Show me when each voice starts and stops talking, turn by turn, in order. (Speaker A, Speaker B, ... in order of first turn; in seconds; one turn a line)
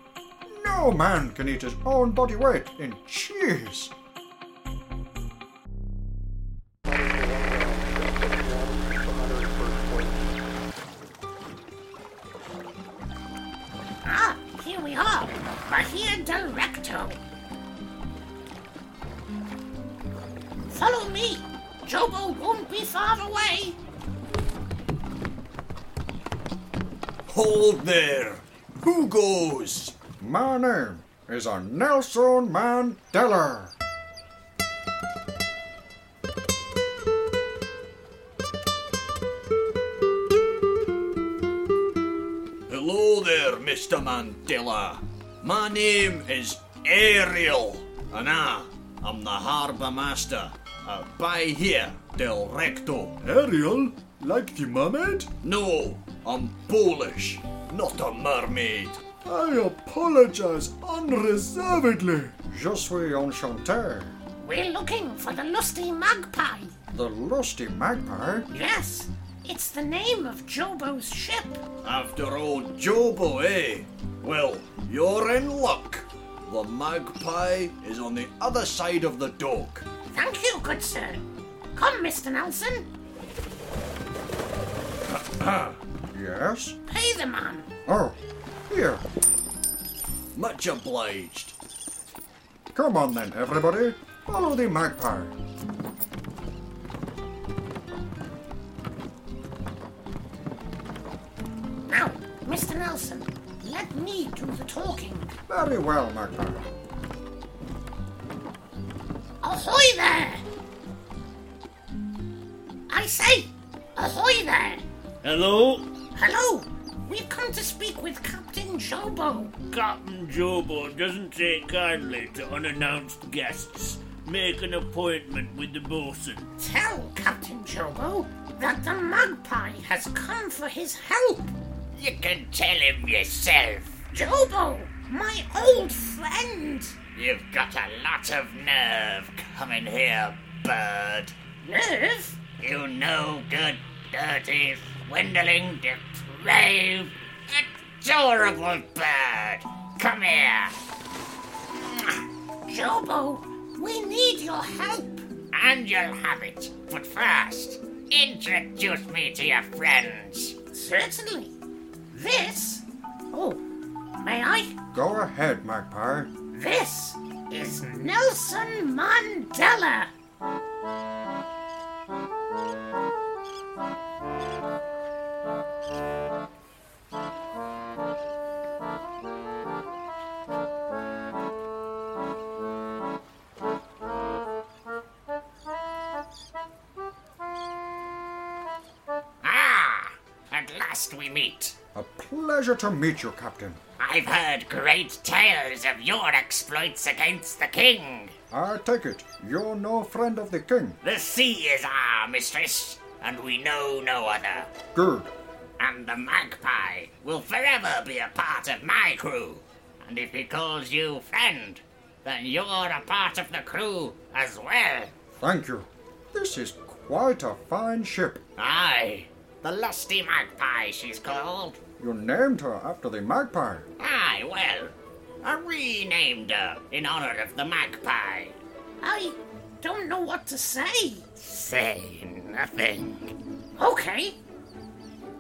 Speaker A: 0.4-3.9
Speaker B: 14.0-17.2
Speaker B: 20.7-23.8
Speaker C: 27.3-29.9
Speaker A: 30.2-33.7
Speaker C: 42.7-53.2
Speaker D: 53.2-55.3
Speaker C: 55.4-59.0
Speaker D: 59.2-62.4
Speaker A: 62.5-64.2
Speaker B: 64.4-66.7
Speaker A: 66.9-68.5
Speaker B: 68.5-71.6
Speaker C: 71.8-79.8
Speaker B: 80.1-81.2
Speaker B: 81.8-82.9
Speaker C: 85.2-85.7
Speaker A: 86.1-86.8
Speaker B: 86.9-87.7
Speaker A: 87.8-88.2
Speaker A: 88.7-89.0
Speaker C: 90.3-91.5
Speaker A: 92.7-95.3
Speaker B: 101.9-105.3
Speaker A: 105.5-106.6
Speaker B: 109.4-110.4
Speaker B: 112.9-114.8
Speaker E: 115.2-115.9
Speaker B: 116.1-119.5
Speaker E: 119.7-126.5
Speaker B: 126.6-131.5
Speaker F: 131.9-134.0
Speaker B: 134.1-136.9
Speaker F: 137.1-141.3
Speaker B: 141.6-142.4
Speaker F: 142.6-150.8
Speaker F: 151.9-152.2
Speaker B: 152.7-155.2
Speaker F: 155.5-160.6
Speaker B: 160.7-161.6
Speaker B: 162.1-163.6
Speaker B: 164.1-164.8
Speaker A: 164.9-166.3
Speaker B: 166.5-170.1
Speaker F: 189.4-191.8
Speaker A: 191.9-193.8
Speaker F: 194.0-198.3
Speaker A: 198.5-201.0
Speaker F: 201.0-204.7
Speaker A: 204.9-205.3
Speaker F: 205.8-215.1
Speaker A: 215.4-218.4
Speaker F: 218.6-221.8
Speaker A: 222.0-223.9
Speaker F: 224.0-228.6
Speaker B: 229.0-231.2
Speaker F: 231.4-233.3
Speaker B: 233.8-234.4